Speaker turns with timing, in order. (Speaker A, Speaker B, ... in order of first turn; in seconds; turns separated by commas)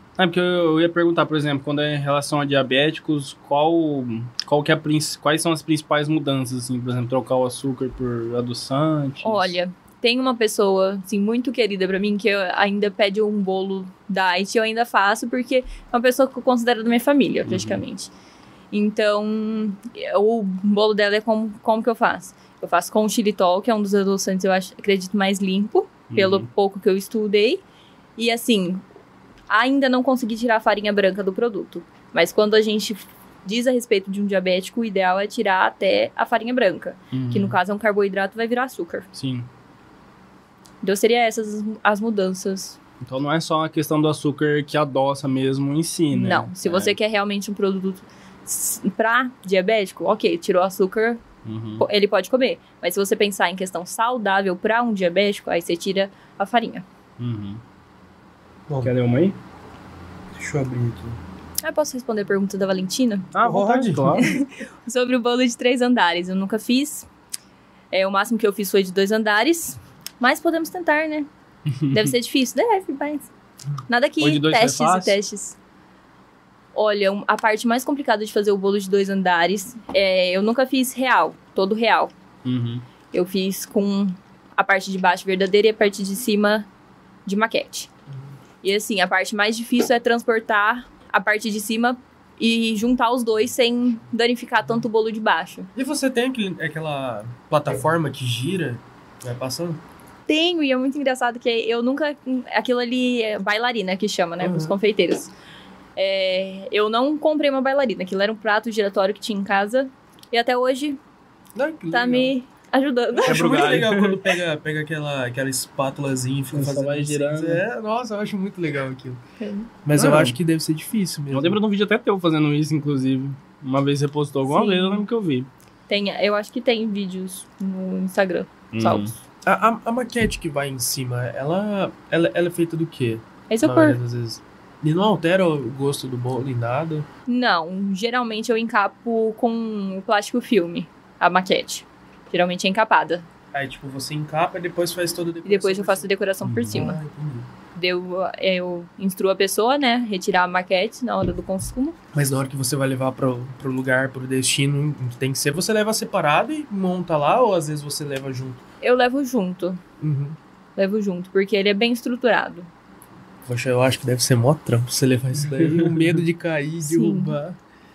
Speaker A: 0.2-9.6, Speaker B: 9.2-18.1, Speaker A: 17.5-17.8, Speaker B: 18.7-27.6, Speaker A: 26.1-26.5, Speaker B: 28.2-28.8, Speaker B: 29.5-39.1, Speaker A: 37.1-37.6, Speaker A: 39.1-39.5, Speaker B: 40.8-42.8, Speaker A: 43.0-47.0, Speaker B: 46.1-51.2, Speaker A: 51.5-51.9, Speaker B: 51.8-56.9, Speaker A: 57.2-57.6, Speaker A: 58.8-59.4, Speaker C: 60.3-61.2, Speaker B: 61.6-63.3, Speaker A: 63.4-64.3, Speaker C: 63.4-64.3, Speaker B: 64.1-67.1, Speaker B: 67.9-71.3, Speaker A: 71.7-72.1, Speaker B: 71.9-73.3, Speaker B: 73.9-75.6, Speaker A: 74.2-75.2, Speaker B: 76.8-82.1, Speaker A: 82.4-82.8, Speaker B: 83.1-86.7, Speaker B: 87.3-87.9, Speaker B: 88.6-95.7, Speaker C: 95.8-99.8, Speaker B: 100.3-105.3, Speaker C: 104.4-104.8, Speaker B: 106.0-111.0, Speaker C: 111.5-112.3, Speaker B: 111.9-113.8, Speaker C: 113.1-119.2, Speaker A: 113.3-114.2, Speaker A: 116.5-117.6, Speaker B: 119.4-119.7, Speaker C: 119.8-121.6, Speaker A: 119.9-120.4, Speaker A: 121.3-125.5, Speaker B: 124.5-125.0, Speaker B: 125.9-129.2, Speaker A: 128.7-129.1, Speaker C: 129.4-137.1, Speaker B: 133.5-134.0, Speaker B: 137.3-143.3, Speaker C: 143.5-146.1, Speaker B: 145.4-147.0, Speaker A: 146.4-146.8, Speaker C: 146.7-147.5, Speaker B: 147.8-152.0, Speaker C: 152.1-158.6, Speaker B: 158.8-159.8, Speaker C: 160.0-160.4, Speaker B: 160.8-162.7, Speaker C: 163.5-167.6, Speaker A: 165.6-166.1, Speaker B: 166.9-167.4